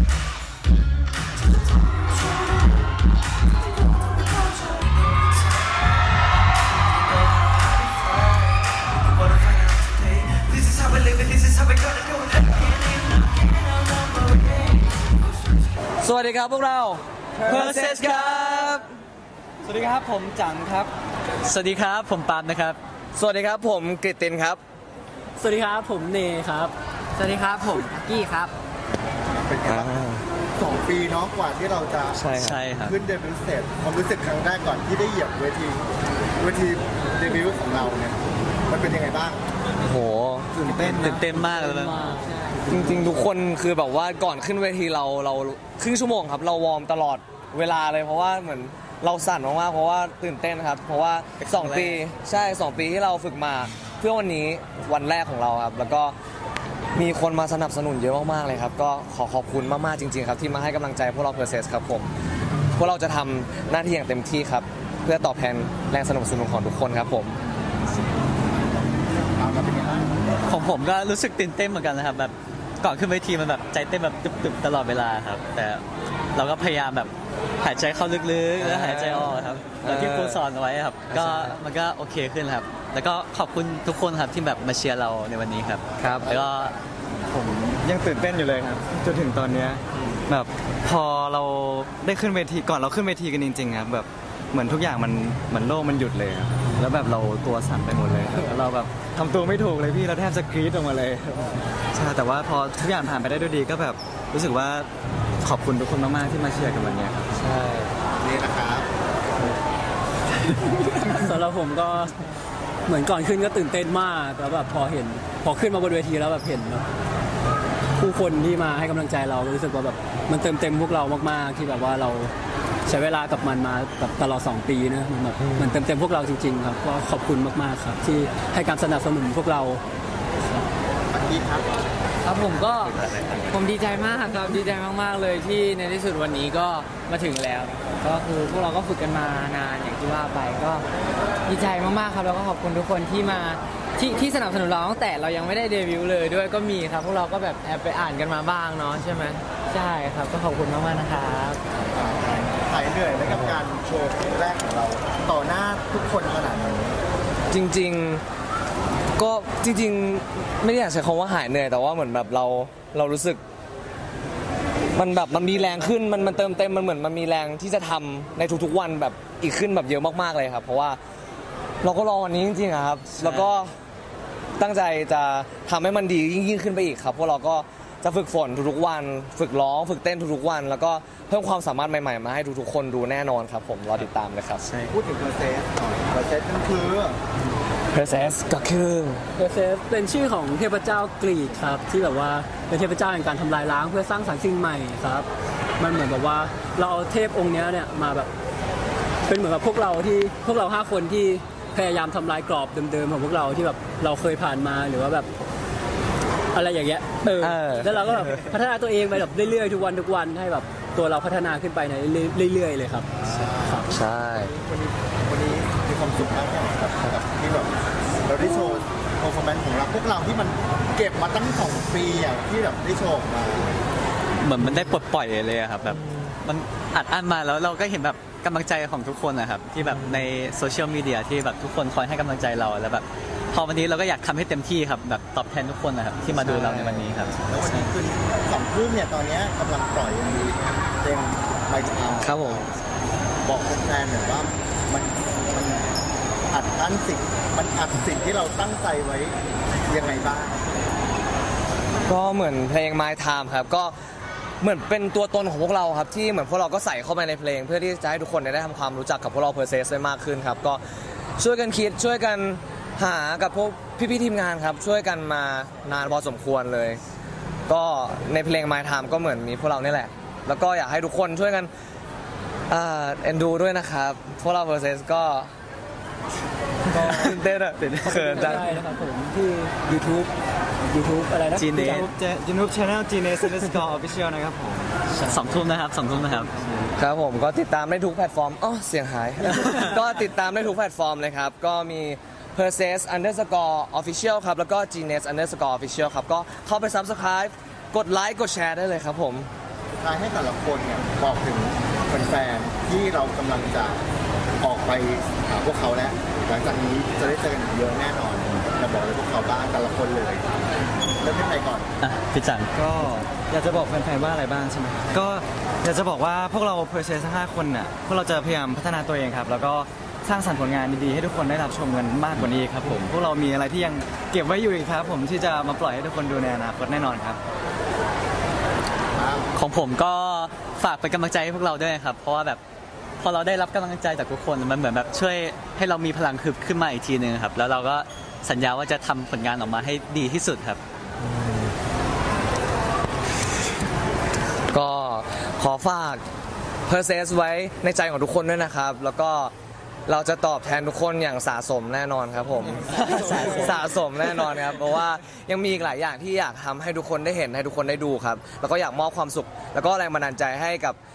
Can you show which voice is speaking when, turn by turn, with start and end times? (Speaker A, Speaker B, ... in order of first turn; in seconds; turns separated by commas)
Speaker A: 9.9-12.6, Speaker B: 16.0-18.9, Speaker A: 17.5-18.7, Speaker A: 19.6-20.9, Speaker C: 21.4-22.8, Speaker B: 23.1-24.6, Speaker D: 25.4-26.7, Speaker E: 27.2-28.5, Speaker F: 28.9-30.0, Speaker B: 29.6-30.2, Speaker F: 30.6-35.8, Speaker B: 32.1-32.6, Speaker C: 32.3-33.0, Speaker F: 36.4-39.4, Speaker B: 39.8-40.5, Speaker F: 40.5-41.4, Speaker C: 40.9-42.0, Speaker B: 42.7-56.1, Speaker C: 51.4-52.0, Speaker B: 57.0-62.1, Speaker B: 62.8-67.4, Speaker F: 68.6-70.1, Speaker C: 70.5-75.8, Speaker C: 76.3-86.8, Speaker B: 78.6-80.4, Speaker B: 81.1-81.6, Speaker B: 86.0-86.3, Speaker A: 87.3-104.9, Speaker A: 105.4-107.3, Speaker B: 107.3-107.9, Speaker F: 108.2-108.9, Speaker D: 110.9-112.2, Speaker D: 112.9-116.9, Speaker D: 118.0-122.3, Speaker D: 122.9-129.8, Speaker B: 125.4-125.7, Speaker F: 131.1-131.7, Speaker E: 132.2-133.0, Speaker C: 132.8-133.7, Speaker E: 133.5-140.8, Speaker E: 141.5-151.6, Speaker F: 151.8-157.0, Speaker B: 153.3-153.6, Speaker B: 157.5-158.2, Speaker B: 159.2-163.4, Speaker B: 164.9-171.0, Speaker B: 171.8-173.7, Speaker C: 173.1-173.6, Speaker B: 174.6-184.7, Speaker C: 184.7-185.0, Speaker F: 184.9-187.2, Speaker B: 187.9-189.2, Speaker D: 189.3-198.3, Speaker D: 199.3-205.3, Speaker D: 206.5-213.1, Speaker B: 207.4-208.4, Speaker F: 213.2-223.8, Speaker D: 213.7-213.9, Speaker B: 213.9-214.5, Speaker C: 224.4-237.9, Speaker B: 229.8-230.3, Speaker B: 236.3-237.1, Speaker F: 237.5-242.8, Speaker B: 242.2-242.6, Speaker F: 243.4-245.9, Speaker F: 246.5-250.7, Speaker B: 252.1-253.9, Speaker B: 254.6-260.8, Speaker B: 261.4-267.0, Speaker B: 267.7-271.7, Speaker B: 272.7-275.5, Speaker B: 276.9-278.7, Speaker A: 276.9-278.1, Speaker D: 278.0-280.3, Speaker D: 280.9-282.1, Speaker C: 281.6-282.1, Speaker A: 281.8-285.4, Speaker C: 285.3-286.5, Speaker A: 286.2-286.9, Speaker B: 287.0-299.5, Speaker F: 300.0-304.0, Speaker F: 304.6-310.7, Speaker F: 311.2-311.9, Speaker C: 312.0-312.7, Speaker A: 312.7-327.4, Speaker F: 329.1-329.5, Speaker C: 329.6-332.6, Speaker C: 333.2-340.8, Speaker B: 341.2-341.7, Speaker B: 344.7-346.2, Speaker B: 346.9-349.5, Speaker B: 350.1-361.0, Speaker C: 352.9-354.4